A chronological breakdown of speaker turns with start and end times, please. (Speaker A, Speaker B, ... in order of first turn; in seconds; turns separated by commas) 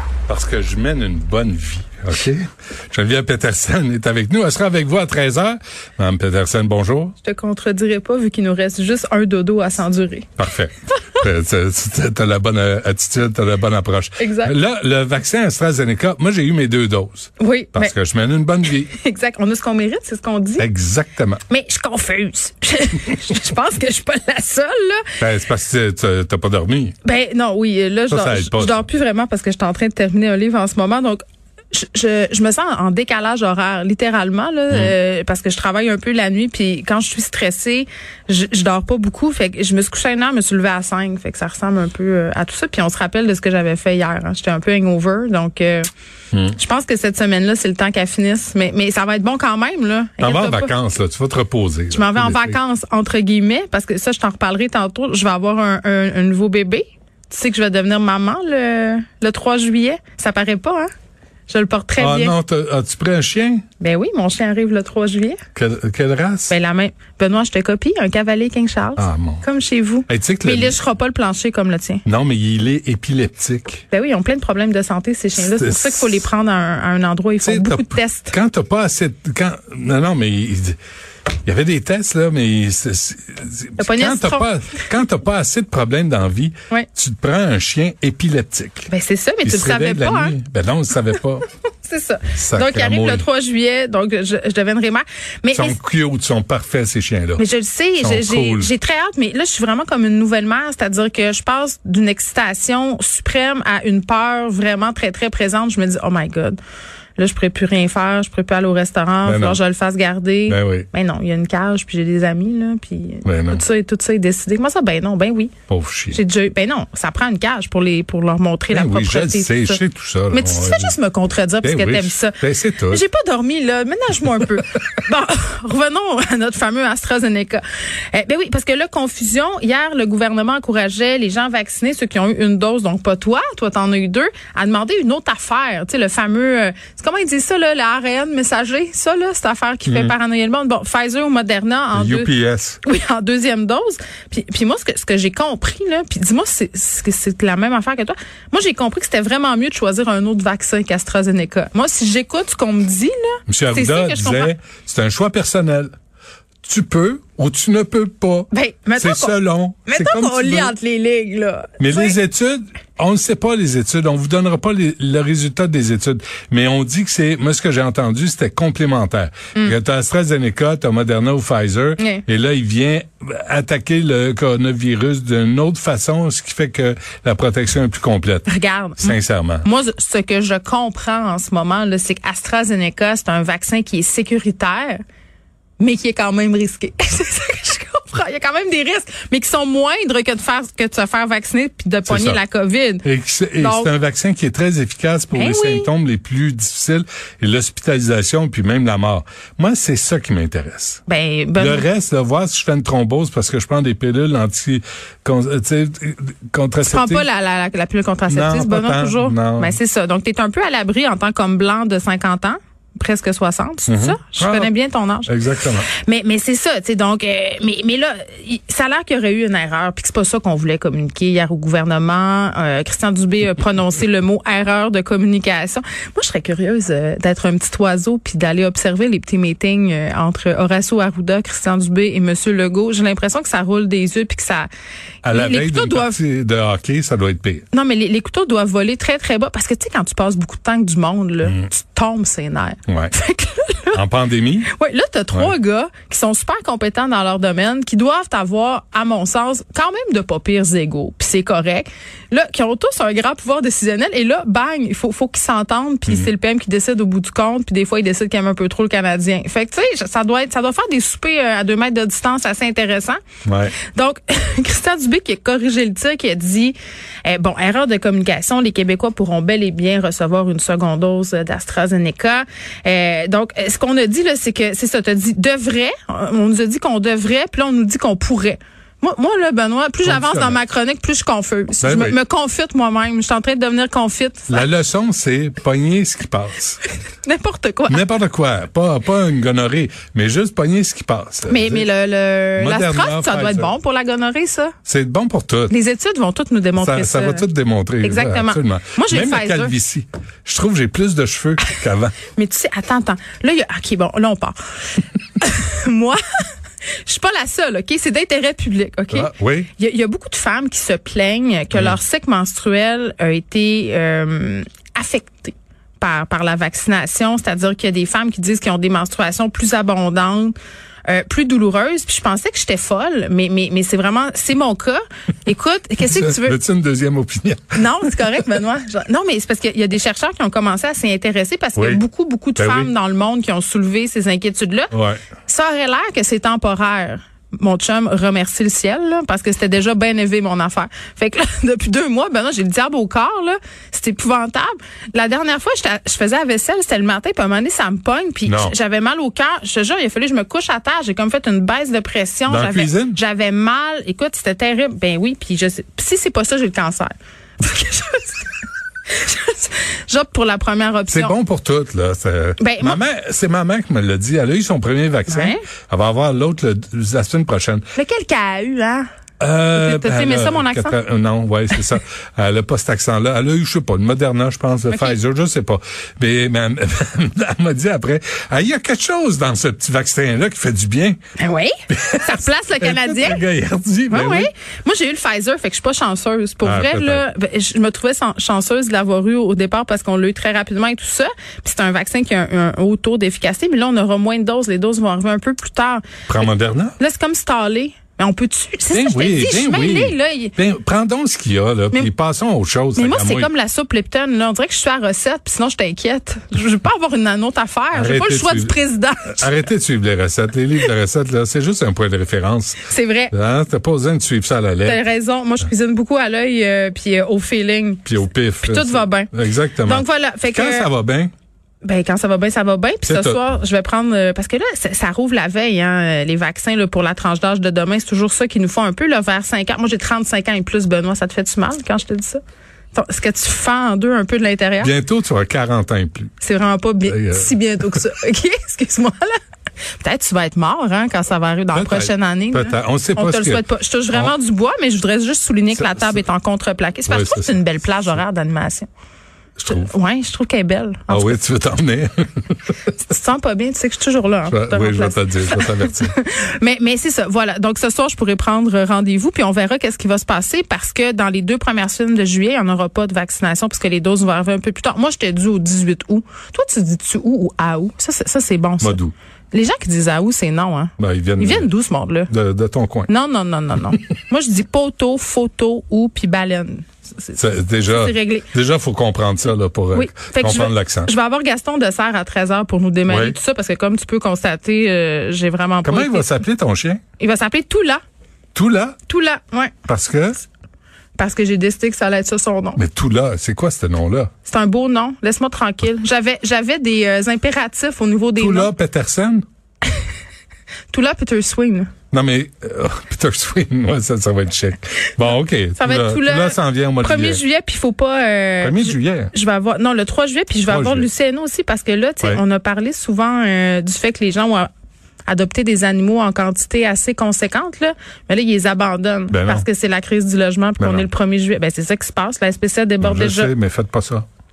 Speaker A: 0.3-7.1, Speaker B: 7.2-10.3, Speaker A: 10.4-18.9, Speaker B: 14.2-14.5, Speaker B: 17.4-17.9, Speaker B: 18.9-20.7, Speaker A: 20.6-21.4, Speaker B: 21.5-25.1, Speaker A: 25.2-27.0, Speaker B: 27.0-45.9, Speaker A: 28.1-28.8, Speaker B: 46.5-50.8, Speaker A: 50.2-52.6, Speaker B: 51.9-60.9, Speaker B: 61.5-62.3, Speaker A: 62.0-63.6, Speaker B: 63.8-65.4, Speaker A: 65.5-66.5, Speaker B: 66.5-72.0, Speaker A: 69.0-69.4, Speaker A: 70.1-70.8, Speaker A: 72.0-73.8, Speaker B: 73.9-78.3, Speaker A: 75.3-76.2, Speaker A: 77.4-80.8, Speaker A: 81.5-88.9, Speaker B: 83.8-84.8, Speaker B: 88.9-90.3, Speaker A: 89.4-91.5, Speaker B: 91.8-95.8, Speaker A: 92.3-93.2, Speaker A: 95.5-97.4, Speaker B: 97.4-106.6, Speaker A: 98.0-98.7, Speaker B: 107.2-115.5, Speaker A: 109.2-109.6, Speaker A: 110.5-110.9, Speaker A: 113.2-113.6, Speaker A: 115.7-116.2, Speaker B: 116.1-119.8, Speaker A: 118.7-120.9, Speaker B: 120.3-142.3, Speaker A: 121.6-123.0, Speaker A: 139.8-140.2, Speaker A: 141.9-142.8, Speaker B: 142.8-154.5, Speaker A: 153.5-155.9, Speaker A: 156.6-160.7, Speaker B: 158.5-162.2, Speaker A: 161.8-178.5, Speaker B: 172.0-172.2, Speaker B: 178.4-185.0, Speaker A: 179.0-179.7, Speaker B: 185.8-193.0, Speaker A: 192.1-192.4, Speaker A: 193.0-201.0, Speaker B: 193.6-193.9, Speaker B: 195.3-195.9, Speaker B: 201.1-201.8, Speaker A: 201.6-207.2, Speaker B: 206.8-215.3, Speaker A: 208.3-209.8, Speaker A: 213.9-214.7, Speaker A: 215.3-215.9, Speaker B: 215.9-234.7, Speaker A: 235.2-237.6, Speaker B: 235.3-236.2, Speaker B: 237.7-244.0, Speaker A: 242.9-243.1, Speaker A: 243.9-244.7, Speaker B: 244.7-263.2, Speaker A: 263.4-263.8, Speaker B: 263.8-284.7, Speaker A: 280.0-280.6, Speaker A: 281.8-282.2, Speaker A: 284.5-286.8, Speaker B: 287.2-288.1, Speaker A: 287.9-291.9, Speaker B: 291.5-294.7, Speaker A: 292.6-293.7, Speaker A: 294.9-295.7, Speaker B: 295.7-297.4, Speaker A: 296.8-302.1, Speaker B: 298.0-299.7, Speaker B: 302.3-304.5, Speaker B: 305.4-306.4, Speaker B: 307.0-320.5, Speaker A: 309.1-309.7, Speaker A: 311.7-312.0, Speaker B: 321.1-326.6, Speaker A: 326.0-328.2, Speaker B: 327.7-334.9, Speaker A: 331.8-332.0, Speaker A: 332.6-332.9, Speaker A: 334.9-335.2, Speaker B: 335.4-358.5, Speaker A: 348.4-348.7, Speaker A: 352.5-353.2, Speaker B: 359.1-361.4, Speaker A: 361.1-367.8, Speaker B: 362.6-363.0, Speaker B: 365.3-365.6, Speaker B: 367.9-369.1, Speaker A: 369.4-381.2, Speaker B: 369.7-371.0, Speaker B: 374.9-375.2, Speaker B: 381.4-383.4, Speaker A: 381.9-384.5, Speaker B: 384.1-396.1, Speaker A: 386.6-387.2, Speaker A: 396.3-397.0, Speaker B: 397.0-400.5, Speaker A: 398.9-403.5, Speaker B: 402.9-409.5, Speaker A: 407.9-408.8, Speaker A: 409.3-415.0, Speaker B: 412.8-413.3, Speaker B: 414.8-419.3, Speaker A: 418.1-421.3, Speaker B: 419.8-420.9, Speaker B: 421.8-432.4, Speaker A: 423.1-423.4, Speaker B: 432.9-434.9, Speaker A: 434.8-436.3, Speaker B: 436.4-439.4, Speaker A: 437.1-438.0, Speaker B: 440.0-448.9, Speaker A: 441.7-444.3, Speaker A: 445.7-446.2, Speaker A: 447.1-447.6, Speaker A: 449.6-449.9, Speaker B: 449.6-451.4, Speaker A: 451.1-452.7, Speaker B: 453.0-469.0, Speaker A: 454.4-456.1, Speaker A: 468.8-469.1, Speaker B: 469.5-472.3, Speaker A: 471.0-471.7, Speaker A: 472.3-473.1, Speaker B: 473.1-478.5, Speaker A: 477.4-481.1, Speaker B: 479.9-486.4, Speaker A: 483.1-483.4, Speaker A: 485.8-487.0, Speaker B: 487.2-488.0, Speaker A: 488.5-489.0, Speaker B: 489.1-489.7, Speaker A: 489.9-490.4, Speaker B: 491.1-492.8, Speaker A: 492.7-494.3, Speaker B: 494.4-498.7, Speaker A: 498.4-499.4, Speaker B: 500.9-501.9, Speaker A: 502.1-507.4, Speaker B: 505.8-514.7, Speaker A: 508.6-509.3, Speaker A: 510.7-511.1, Speaker B: 515.3-523.5, Speaker A: 519.3-519.6, Speaker A: 520.8-521.1, Speaker A: 523.0-524.2